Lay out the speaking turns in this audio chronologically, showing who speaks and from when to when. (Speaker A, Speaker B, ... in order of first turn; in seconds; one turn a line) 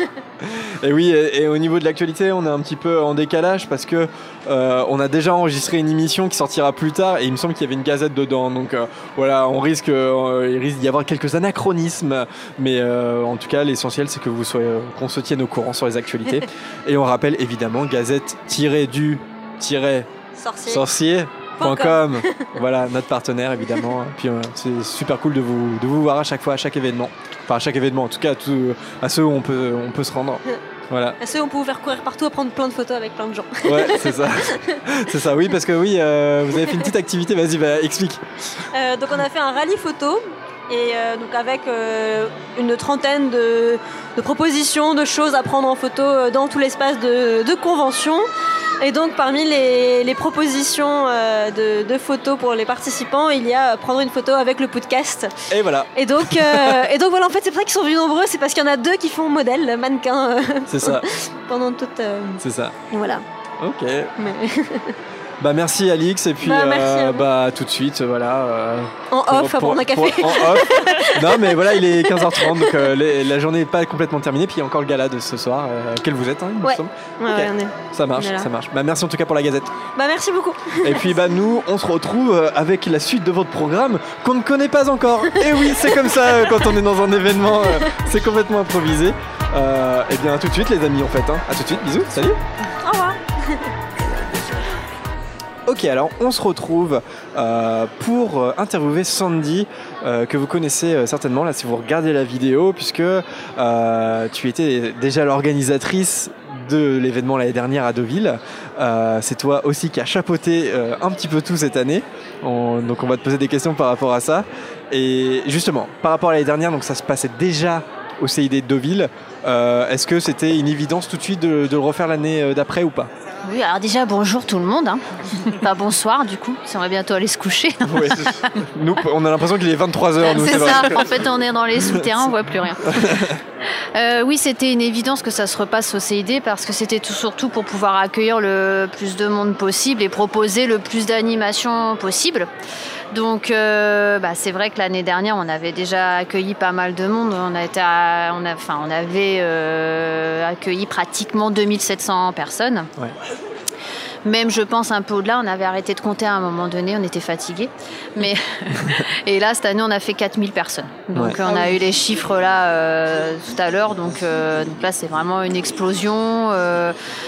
Speaker A: 0.4-20.1
Speaker B: 20.4-20.9
Speaker A: 20.7-31.2
Speaker B: 21.6-22.5
Speaker B: 31.2-34.8
Speaker A: 33.6-38.2
Speaker B: 36.6-36.8
Speaker B: 38.7-48.3
Speaker B: 48.8-55.3
Speaker A: 55.5-56.9
Speaker B: 56.0-63.2
Speaker A: 60.7-61.1
Speaker A: 62.4-62.8
Speaker A: 63.6-64.1
Speaker B: 64.2-65.0
Speaker A: 65.4-79.7
Speaker B: 66.4-67.3
Speaker B: 69.1-72.9
Speaker B: 76.6-78.5
Speaker B: 80.0-81.2
Speaker A: 80.8-92.4
Speaker B: 85.4-86.7
Speaker B: 87.6-87.9
Speaker B: 92.8-93.7
Speaker A: 95.7-123.1
Speaker C: 123.4-128.5
Speaker A: 127.8-131.1
Speaker C: 130.2-133.1
Speaker A: 131.8-132.1
Speaker A: 132.8-133.4
Speaker C: 133.9-142.5
Speaker C: 143.1-152.9
Speaker C: 154.2-166.9
Speaker A: 161.1-161.4